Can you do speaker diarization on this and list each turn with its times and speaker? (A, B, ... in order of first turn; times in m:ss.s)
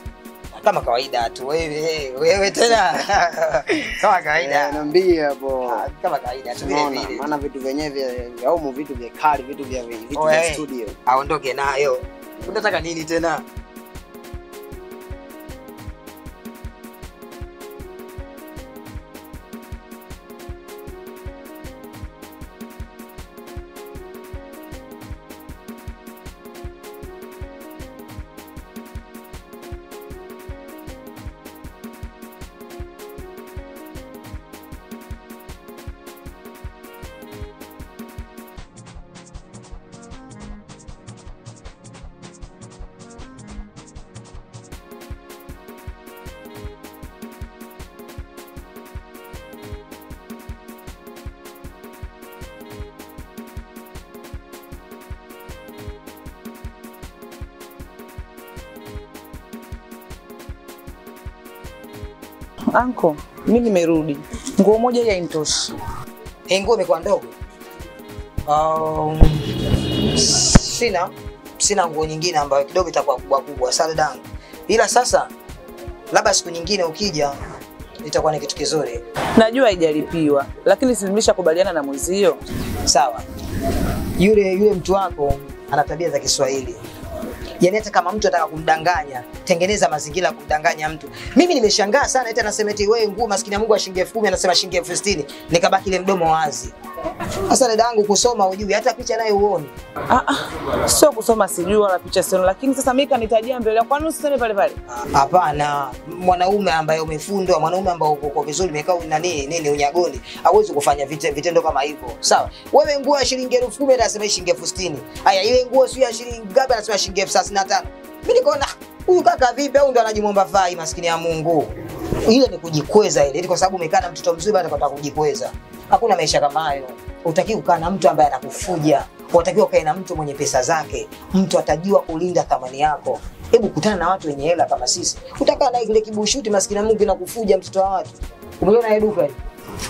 0:00.6-0:04.8 A
0:04.3-0:05.9 B
0:05.7-0:07.3 A
0:06.6-0:11.0 B
0:10.2-0:13.4 A
0:12.4-0:12.7 B
1:02.7-1:05.8 C
1:06.5-1:07.3 A
1:08.5-1:09.5 A
1:10.1-1:15.3 A
1:16.1-1:17.4 A
1:18.0-1:19.0 A
1:19.4-1:22.4 C
1:22.9-1:23.2 A
1:24.2-1:26.8 A
1:27.6-1:36.7 A
1:37.5-1:39.7 A
1:40.1-1:44.8 C
1:44.9-2:01.7 A
2:02.3-2:19.4 A